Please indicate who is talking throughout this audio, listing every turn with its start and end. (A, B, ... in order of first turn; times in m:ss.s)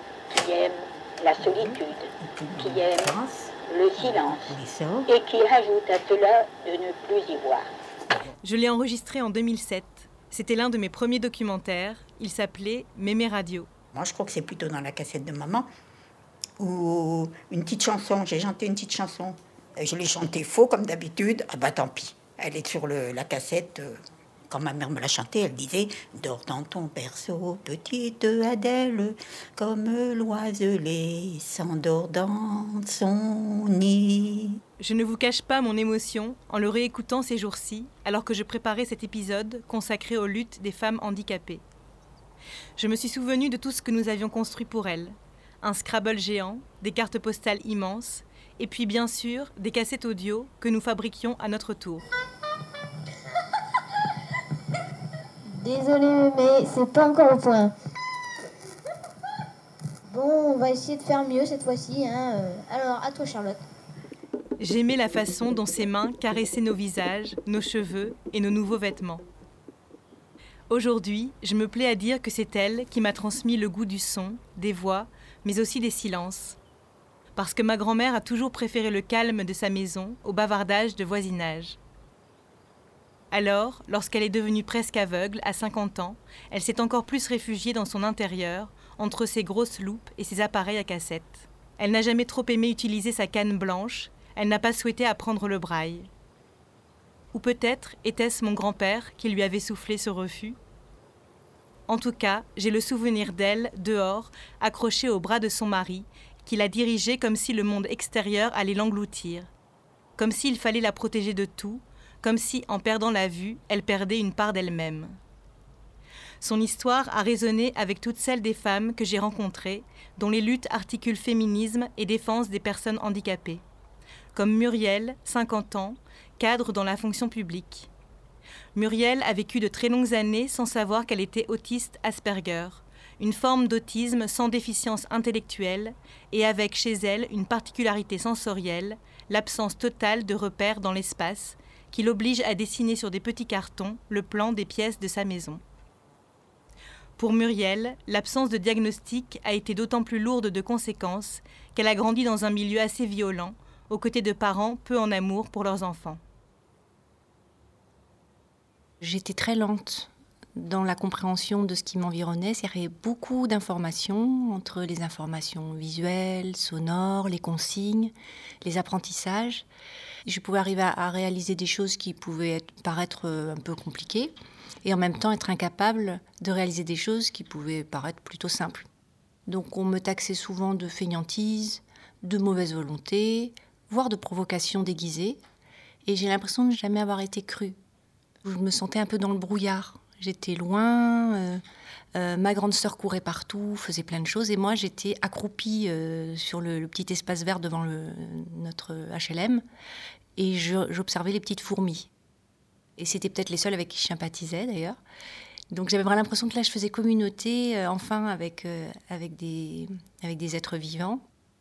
0:00.3-0:04.5 A
0:01.4-0:05.1 B
0:05.0-0:07.7 A
0:08.4-0:13.7 C
0:13.9-0:15.7 B
0:16.6-0:24.0 B
0:24.5-0:34.6 B
0:34.8-0:41.6 C
0:42.8-0:52.0 C
0:55.5-0:57.7 D
1:00.1-1:03.6 D
1:04.6-1:09.2 C
1:10.7-1:16.6 C
1:17.4-1:21.8 C
1:23.3-1:36.1 C
1:37.3-1:40.6 C
1:41.9-1:49.5 C
1:50.2-1:55.2 C
1:56.4-2:03.6 C
2:04.3-2:07.9 C
2:08.7-2:25.6 C
2:27.2-2:36.2 C
2:39.0-2:49.7 E
2:50.2-2:54.3 E
2:54.8-2:58.9 E
2:59.5-3:05.4 E
3:06.0-3:07.8 E
3:08.4-3:11.6 E
3:12.1-3:19.6 E
3:20.4-3:22.1 E
3:23.0-3:25.0 E
3:25.7-3:31.2 E